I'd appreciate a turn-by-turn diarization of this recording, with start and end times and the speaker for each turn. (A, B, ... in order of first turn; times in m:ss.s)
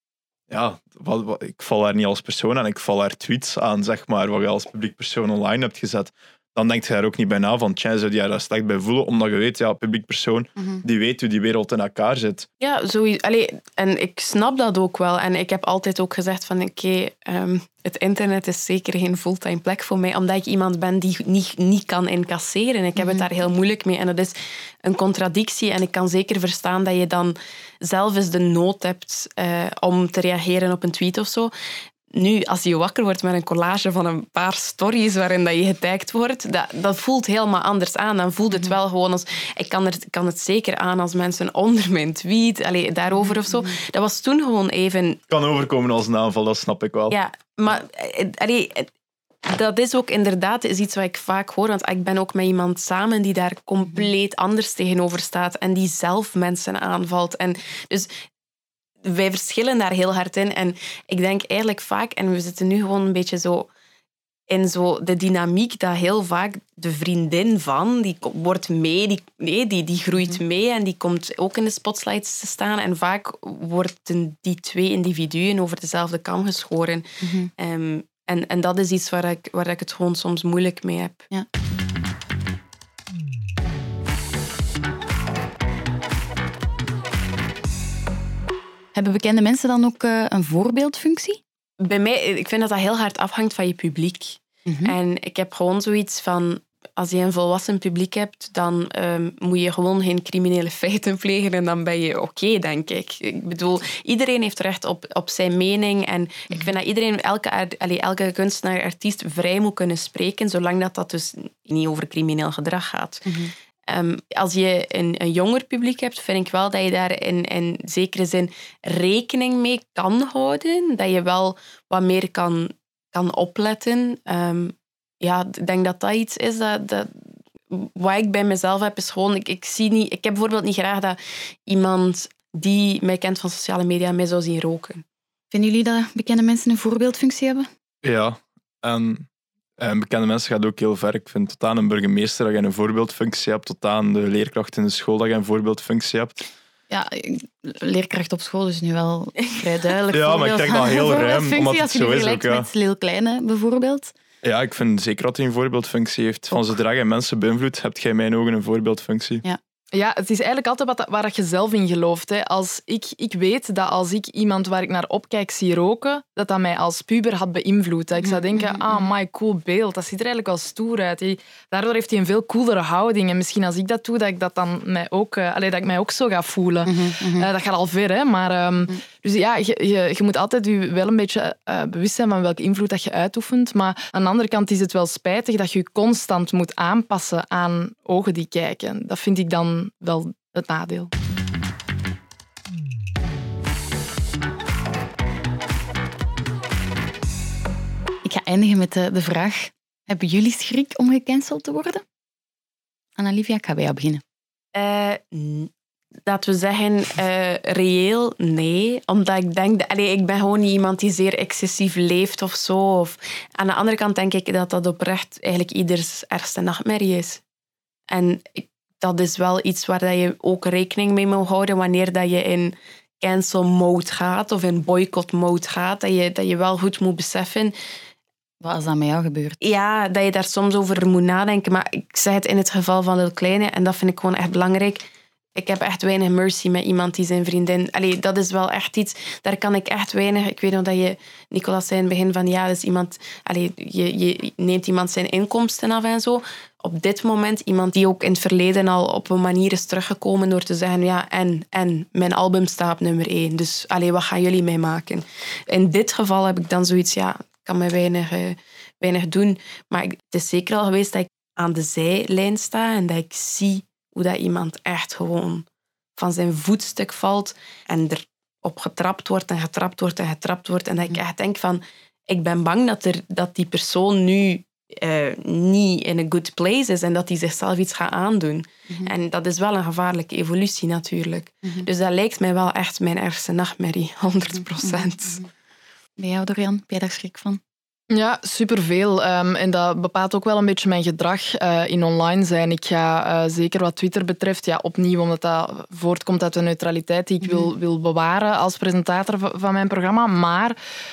0:00.5-0:12.4 A
0:12.6-0:31.5 B
0:23.0-0:23.2 C
0:32.1-0:45.2 B
0:43.2-0:43.7 C
0:45.3-0:47.2 A
0:47.1-0:48.9 B
0:49.4-0:58.1 B
0:59.0-1:03.7 B
1:04.5-1:17.0 B
1:17.2-1:17.5 C
1:17.6-1:21.2 B
1:28.9-1:31.4 C
1:31.8-1:53.3 B
1:34.7-1:34.9 C
1:53.2-1:53.5 C
1:53.9-2:07.1 B
2:07.7-2:15.0 B
2:15.5-2:17.7 C
2:18.0-2:19.2 A
2:19.8-2:26.4 A
2:26.9-2:34.1 C
2:30.1-2:32.7 A
2:34.4-2:39.4 A
2:39.9-3:11.1 D
2:48.2-2:49.1 C
2:56.8-2:57.5 C
3:18.2-3:22.0 C
3:23.2-3:24.2 C
3:24.7-3:25.7 B
3:26.2-3:37.4 B
3:38.1-3:47.7 B
3:48.6-3:49.6 C
3:49.6-3:55.0 B
3:55.6-4:25.6 B
4:26.2-4:45.4 B
4:44.8-4:45.4 C
4:46.2-4:47.6 C
4:48.1-5:00.8 D
4:57.4-4:57.7 C